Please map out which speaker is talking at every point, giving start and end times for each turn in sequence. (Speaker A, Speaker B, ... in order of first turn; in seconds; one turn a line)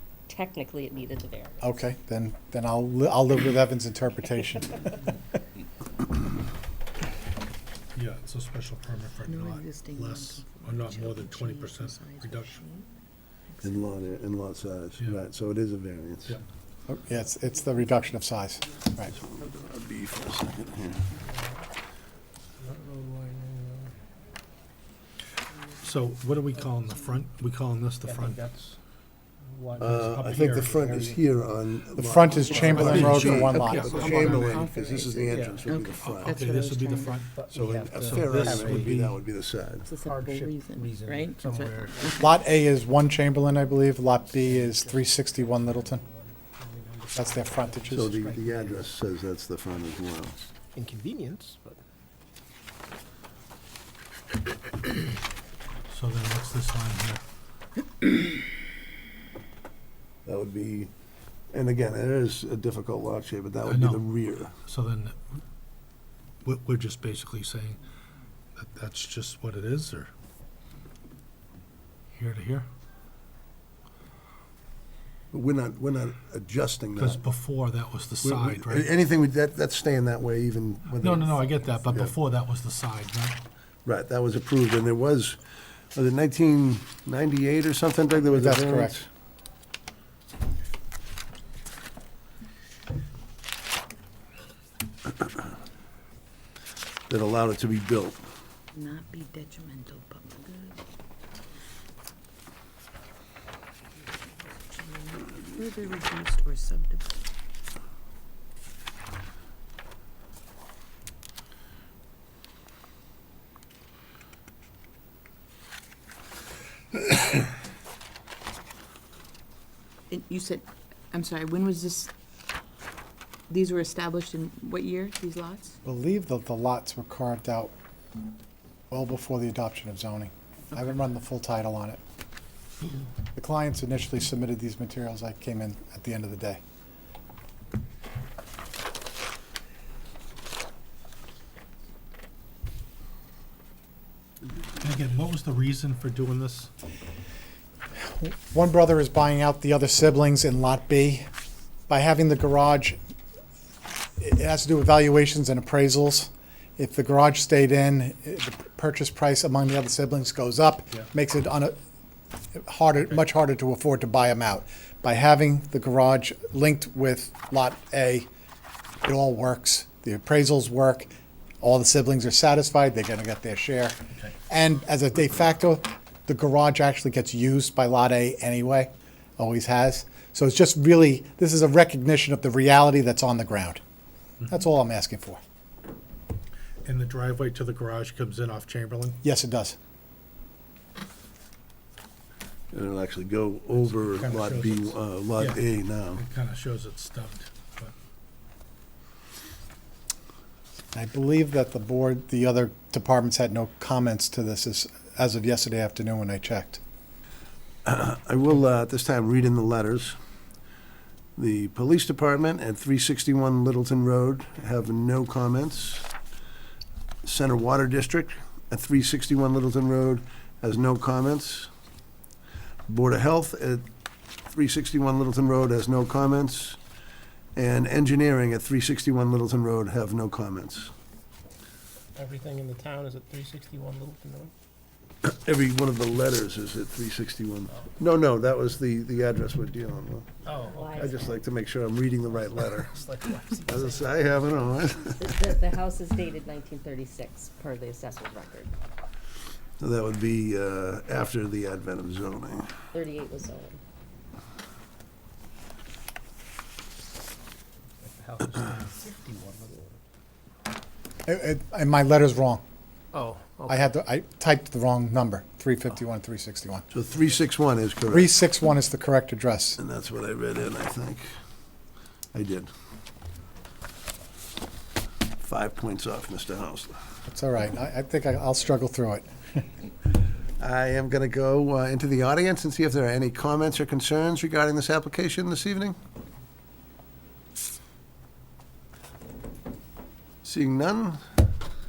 Speaker A: 0.3-1.6
Speaker B: 1.6-5.0
Speaker C: 7.9-12.6
Speaker D: 9.2-12.9
Speaker E: 13.6-16.4
Speaker B: 16.9-19.1
Speaker E: 19.1-21.1
Speaker F: 22.6-23.9
Speaker C: 25.8-28.4
Speaker F: 28.0-28.8
Speaker F: 29.4-31.3
Speaker C: 29.8-30.9
Speaker E: 29.8-36.4
Speaker B: 31.9-33.9
Speaker C: 32.5-34.7
Speaker F: 32.9-33.2
Speaker A: 33.9-35.4
Speaker F: 35.3-35.7
Speaker D: 35.6-37.2
Speaker C: 35.9-39.2
Speaker F: 37.3-39.0
Speaker E: 37.5-39.9
Speaker D: 39.9-42.2
Speaker F: 40.0-42.2
Speaker B: 42.1-46.0
Speaker F: 44.4-49.0
Speaker B: 47.1-48.2
Speaker E: 47.9-50.4
Speaker F: 50.5-51.8
Speaker C: 55.9-57.2
Speaker E: 60.2-60.9
Speaker E: 61.5-64.5
Speaker C: 63.6-64.0
Speaker C: 64.6-65.2
Speaker C: 66.4-67.8
Speaker C: 68.5-70.1
Speaker C: 72.2-72.7
Speaker E: 75.3-77.2
Speaker C: 77.0-78.9
Speaker E: 78.2-82.1
Speaker C: 81.0-83.4
Speaker E: 83.8-85.4
Speaker E: 85.9-89.1
Speaker B: 88.2-89.0
Speaker E: 97.1-98.2
Speaker D: 98.7-100.8
Speaker D: 104.5-107.2
Speaker D: 120.1-122.1
Speaker D: 123.5-125.7
Speaker B: 125.8-127.7
Speaker B: 128.9-132.0
Speaker B: 133.3-136.6
Speaker C: 144.8-146.7
Speaker B: 148.0-151.3
Speaker B: 151.9-153.0
Speaker B: 154.2-161.8
Speaker B: 162.5-168.3
Speaker B: 169.0-183.8
Speaker B: 184.5-185.4
Speaker C: 186.8-189.2
Speaker B: 189.2-189.8
Speaker E: 192.7-196.2
Speaker C: 193.7-195.6
Speaker C: 196.1-197.9
Speaker B: 200.9-206.8
Speaker E: 207.8-210.2
Speaker E: 211.4-216.1
Speaker E: 217.2-221.7
Speaker E: 222.9-223.8
Speaker E: 224.5-226.8
Speaker E: 227.5-230.9
Speaker F: 232.2-234.5
Speaker E: 235.2-240.3
Speaker F: 240.4-241.3
Speaker A: 240.7-241.4
Speaker E: 240.9-243.0
Speaker F: 242.3-244.6
Speaker E: 243.7-245.4
Speaker A: 245.2-248.7
Speaker E: 249.8-252.7
Speaker A: 252.9-253.8
Speaker F: 258.0-260.0
Speaker B: 261.2-262.6
Speaker F: 263.1-263.9
Speaker B: 263.7-266.9
Speaker E: 266.9-268.4
Speaker B: 268.1-269.8
Speaker E: 269.8-271.3
Speaker E: 272.3-272.7
Speaker E: 275.4-276.9
Speaker B: 277.3-279.6
Speaker E: 280.6-285.9
Speaker E: 290.4-291.2